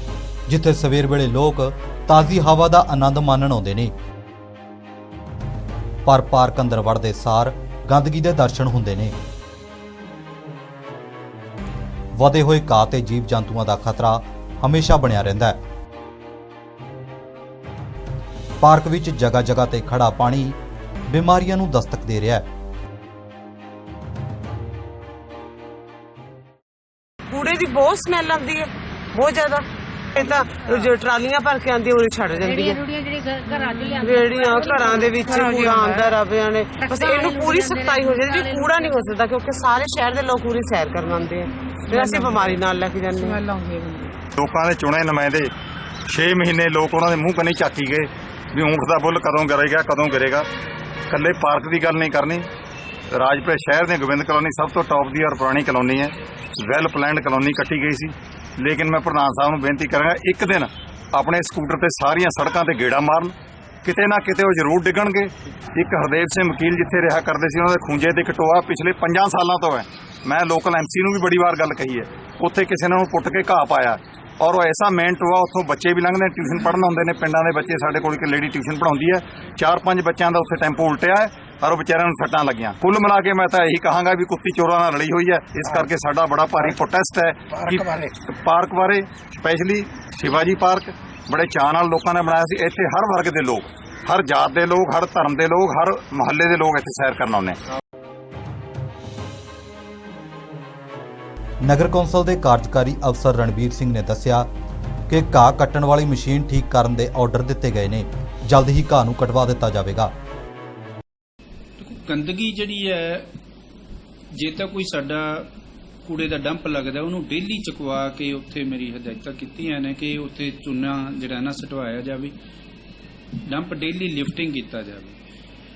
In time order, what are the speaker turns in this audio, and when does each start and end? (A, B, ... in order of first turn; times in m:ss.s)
0:00.5-0:03.9 A
0:06.0-0:09.1 A
0:12.1-0:15.6 A
0:18.6-0:22.5 A
0:27.3-0:32.8 B
0:32.4-0:35.3 C
0:33.9-0:43.5 B
0:36.8-0:39.1 C
0:44.4-0:45.5 D
0:46.1-0:50.5 D
0:51.1-0:52.5 D
0:53.1-1:37.6 D
1:41.6-1:44.5 A
1:45.1-1:50.1 A
1:51.8-1:53.3 E
1:54.3-1:55.5 E
1:56.0-2:02.3 E
2:03.4-2:05.2 E